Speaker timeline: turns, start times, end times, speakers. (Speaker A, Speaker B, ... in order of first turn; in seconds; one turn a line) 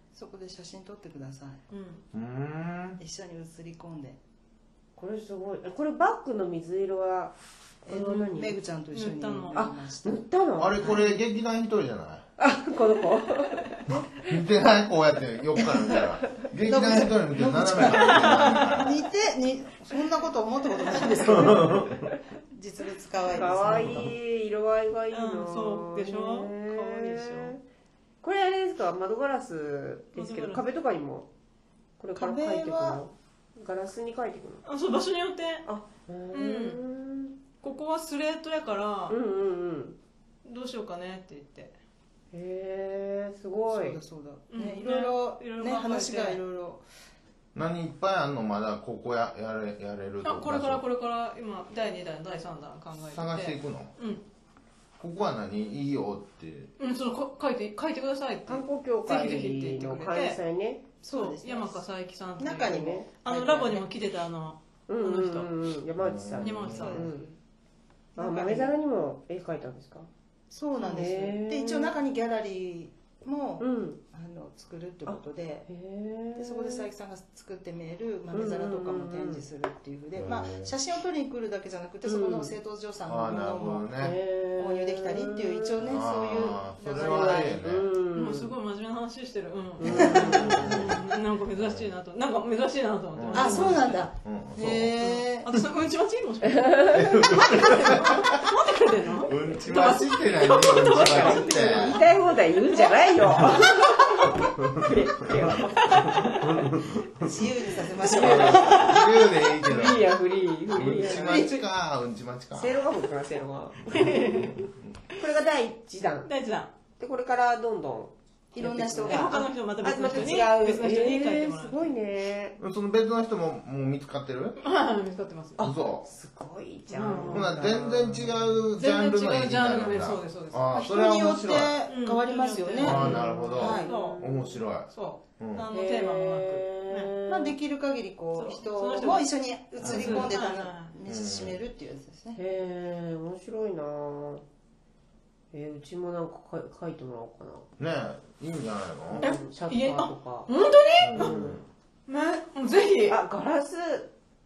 Speaker A: 0.1-1.6
Speaker B: 1.7-2.0
Speaker C: 2.1-3.0
Speaker A: 3.0-4.2
Speaker D: 5.0-7.3
Speaker A: 7.8-10.2
Speaker D: 7.9-8.6
Speaker B: 8.9-9.6
Speaker D: 9.5-10.9
Speaker C: 10.6-12.2
Speaker D: 12.4-14.3
Speaker C: 14.2-19.0
Speaker D: 15.6-16.0
Speaker A: 16.6-22.0
Speaker B: 17.8-18.9
Speaker D: 21.0-21.9
Speaker C: 21.3-21.9
Speaker A: 22.5-24.1
Speaker D: 23.3-27.6
Speaker B: 25.1-27.6
Speaker D: 28.2-31.3
Speaker B: 30.1-30.6
Speaker D: 32.0-34.6
Speaker A: 32.2-33.0
Speaker B: 34.6-35.7
Speaker D: 35.6-37.4
Speaker B: 36.3-36.8
Speaker B: 37.6-39.2
Speaker D: 39.1-40.0
Speaker B: 40.5-41.8
Speaker D: 42.3-44.0
Speaker A: 43.7-46.8
Speaker B: 44.5-46.4
Speaker C: 47.5-50.8
Speaker B: 50.2-54.2
Speaker C: 53.0-54.0
Speaker C: 55.0-56.7
Speaker B: 56.8-60.4
Speaker D: 58.5-60.8
Speaker A: 61.0-61.8
Speaker B: 61.1-65.5
Speaker A: 62.4-63.9
Speaker D: 62.7-63.1
Speaker D: 64.9-67.3
Speaker C: 66.0-67.0
Speaker B: 66.4-67.0
Speaker A: 66.8-67.3
Speaker A: 68.2-68.8
Speaker D: 68.2-70.1
Speaker A: 70.5-75.7
Speaker D: 70.8-71.9
Speaker D: 73.6-74.0
Speaker D: 75.1-76.9
Speaker A: 76.4-83.9
Speaker D: 78.3-79.4
Speaker C: 80.2-80.7
Speaker D: 82.0-82.5
Speaker C: 83.1-84.2
Speaker D: 84.0-85.8
Speaker A: 84.6-87.6
Speaker C: 85.8-87.9
Speaker D: 86.9-88.5
Speaker B: 88.1-94.0
Speaker D: 89.8-90.8
Speaker C: 89.8-91.0
Speaker A: 89.9-90.6
Speaker C: 91.5-92.0
Speaker C: 93.1-94.9
Speaker A: 93.3-95.5
Speaker B: 95.0-102.0
Speaker D: 96.7-98.0
Speaker C: 96.9-98.4
Speaker C: 99.3-102.1
Speaker D: 100.8-106.2
Speaker C: 103.3-103.6
Speaker C: 105.3-105.6
Speaker B: 106.0-106.5
Speaker A: 107.2-109.0
Speaker D: 108.1-111.5
Speaker B: 108.1-108.8
Speaker C: 108.1-110.1
Speaker C: 110.7-112.9
Speaker A: 111.0-111.6
Speaker D: 112.5-114.5
Speaker C: 113.9-114.7
Speaker B: 113.9-114.7
Speaker D: 115.2-116.3
Speaker B: 116.2-116.7
Speaker D: 117.0-122.6
Speaker A: 118.5-119.4
Speaker B: 119.0-122.0
Speaker C: 122.6-124.6
Speaker B: 124.6-125.6
Speaker D: 125.6-128.7
Speaker C: 125.6-126.1
Speaker B: 126.9-127.6
Speaker C: 127.2-131.8
Speaker B: 128.8-130.6
Speaker A: 130.7-133.9
Speaker B: 131.9-134.2
Speaker C: 132.8-135.7
Speaker D: 132.8-134.7
Speaker B: 134.9-137.1
Speaker D: 135.7-137.6
Speaker A: 137.3-142.4
Speaker B: 138.3-139.3
Speaker C: 139.8-140.3
Speaker B: 139.8-140.9
Speaker C: 141.1-141.6
Speaker D: 142.3-144.4
Speaker D: 145.5-147.7
Speaker C: 147.8-149.3
Speaker D: 149.1-150.5
Speaker B: 149.2-151.3
Speaker C: 151.0-151.7
Speaker D: 151.1-151.6
Speaker B: 152.1-153.2
Speaker D: 153.1-154.1